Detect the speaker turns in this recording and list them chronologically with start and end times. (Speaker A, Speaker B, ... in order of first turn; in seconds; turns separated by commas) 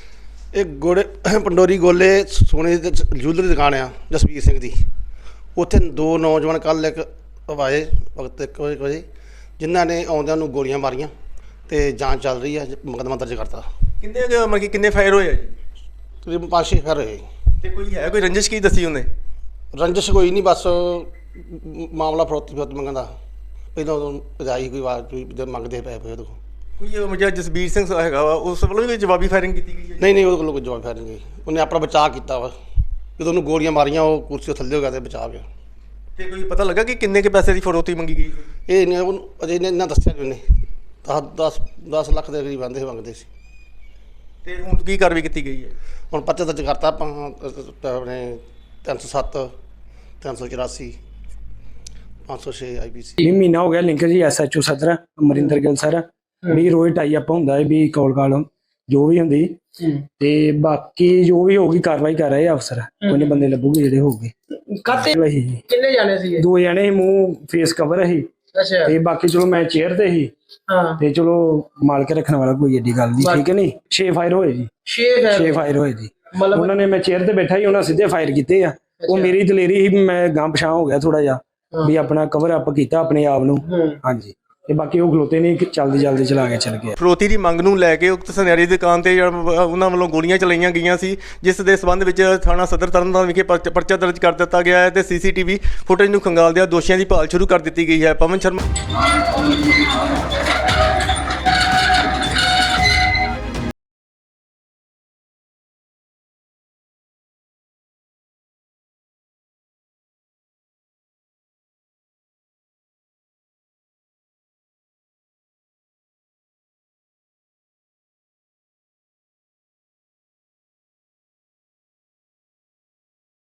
Speaker A: 0.5-4.8, Speaker A: 5.5-9.0, Speaker A: 9.6-11.1, Speaker A: 11.7-13.7, Speaker B: 14.0-15.6, Speaker A: 16.2-17.3, Speaker B: 17.6-19.1, Speaker A: 19.7-23.1, Speaker A: 23.7-26.4, Speaker B: 26.8-30.1, Speaker A: 30.0-32.5, Speaker A: 33.2-35.5, Speaker B: 36.2-38.5, Speaker A: 38.7-40.4, Speaker A: 41.0-43.3, Speaker B: 44.4-45.7, Speaker A: 46.1-49.5, Speaker A: 50.2-50.9, Speaker A: 52.2-53.2, Speaker C: 53.2-59.6, Speaker C: 60.2-64.3, Speaker D: 63.0-63.4, Speaker D: 64.7-65.0, Speaker C: 64.9-65.6, Speaker D: 65.7-66.4, Speaker C: 66.4-68.3, Speaker D: 68.5-68.9, Speaker C: 68.8-70.3, Speaker D: 70.7-71.0, Speaker C: 71.0-74.7, Speaker D: 73.2-73.4, Speaker D: 74.8-75.5, Speaker C: 75.3-86.9, Speaker D: 76.3-76.7, Speaker D: 79.0-79.3, Speaker D: 83.7-84.0, Speaker B: 87.0-98.6